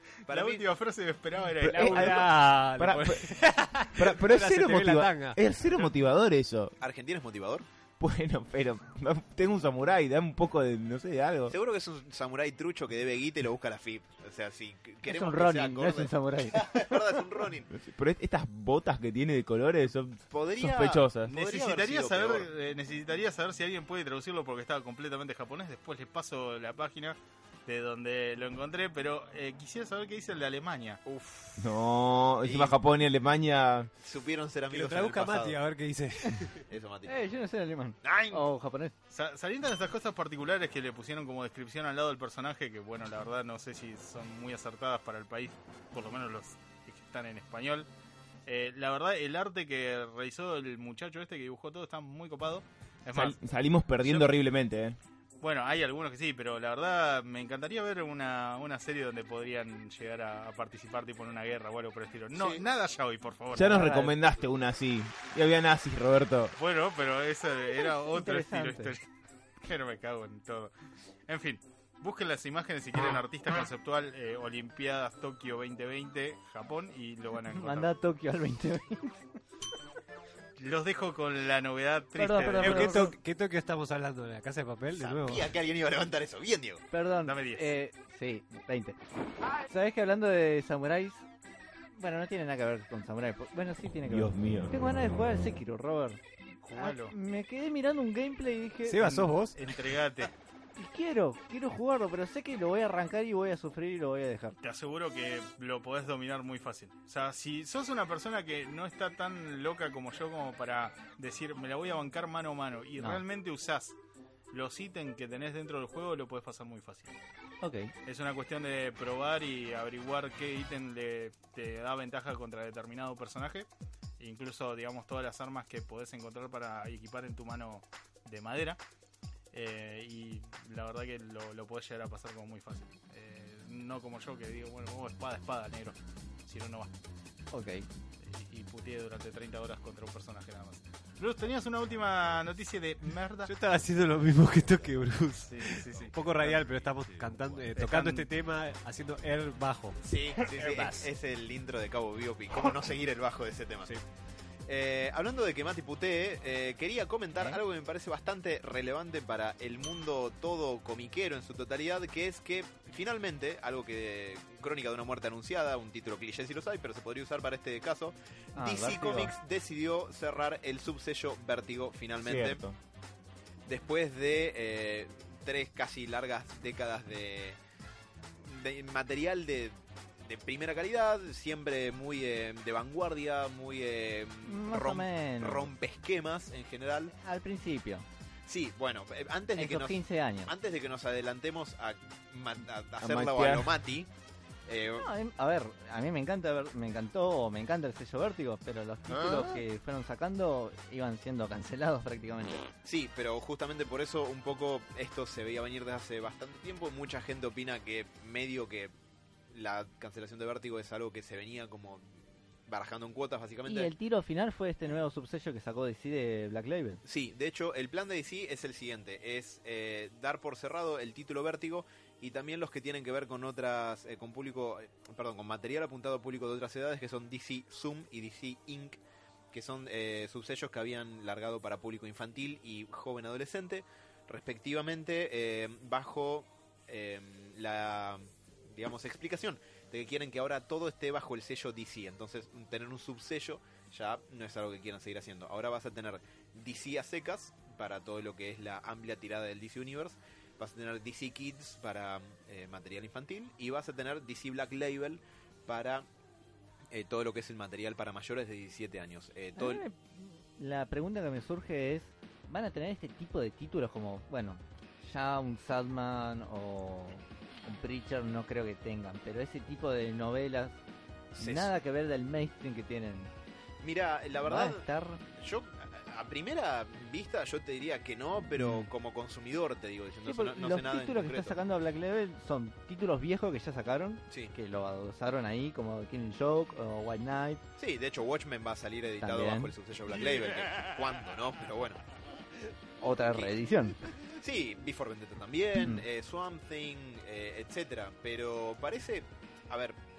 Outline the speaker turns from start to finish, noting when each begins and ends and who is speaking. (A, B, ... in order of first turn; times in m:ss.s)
0:00.3-0:02.3 A
0:00.3-0:00.6 B
0:01.6-0:03.3 C
0:01.6-0:05.4 D
0:04.0-0:06.8 C
0:06.8-0:07.6 B
0:08.0-0:11.6 C
0:11.5-0:17.7 B
0:15.0-0:17.0 E
0:17.7-0:21.3 C
0:20.3-0:22.5 B
0:21.3-0:31.0 A
0:31.0-0:31.7 B
0:31.6-0:33.9 C
0:32.4-0:32.8 B
0:34.0-0:35.6 B
0:34.7-0:36.6 D
0:36.7-0:37.1 B
0:37.1-0:38.9 E
0:38.0-0:38.4 B
0:39.1-0:47.9 A
0:48.5-0:53.4 A
0:53.1-0:55.0 C
0:54.0-0:54.3 A
0:55.4-1:03.9 A
1:03.5-1:06.6 C
1:03.6-1:04.1 E
1:06.6-1:09.1 A
1:08.1-1:09.0 E
1:09.6-1:10.7 A
1:11.3-1:17.9 A
1:17.5-1:19.2 E
1:20.6-1:23.1 A
1:22.2-1:23.2 E
1:22.6-1:25.5 D
1:25.0-1:26.8 B
1:26.9-1:29.0 E
1:27.2-1:27.7 A
1:29.7-1:31.3 E
1:31.9-1:39.1 E
1:34.1-1:34.7 C
1:36.6-1:37.2 A
1:38.9-1:39.6 D
1:39.0-1:40.3 A
1:40.8-1:44.6 E
1:44.6-1:54.0 A
1:53.0-1:53.2 E
1:54.5-1:57.2 A
1:57.6-1:57.9 E
1:58.0-2:03.7 A
2:04.2-2:08.8 A
2:09.5-2:16.9 A
2:17.5-2:17.9 E
2:18.2-2:23.5 A
2:23.5-2:31.1 D
2:25.5-2:26.7 A
2:27.7-2:28.3 A
2:30.0-2:33.9 B
2:34.7-2:52.6 B
2:48.6-2:49.3 E
2:52.2-2:52.8 C
2:53.7-2:57.6 B
2:58.4-3:07.1 B
3:04.4-3:05.7 E
3:07.2-3:08.0 E
3:08.5-3:14.1 B
3:09.6-3:10.5 E
3:13.0-3:13.8 C
3:14.7-3:15.1 B
3:15.0-3:22.6 E
3:19.1-3:19.4 B
3:22.8-3:28.9 B
3:29.5-3:33.9 B
3:33.7-3:37.0 E
3:37.0-3:49.0 B
3:49.5-4:16.1 B
4:16.9-4:19.8 B
4:19.6-4:30.8 E
4:31.3-4:31.7 B
4:31.4-4:33.3 E
4:33.8-4:34.8 B
4:34.4-4:35.2 E
4:35.4-4:41.6 B
4:38.6-4:38.8 E
4:40.2-4:47.6 E
4:47.8-4:52.0 B
4:49.2-4:49.7 E
4:53.0-4:54.1 E
4:54.1-5:00.0 B
4:55.8-4:56.0 E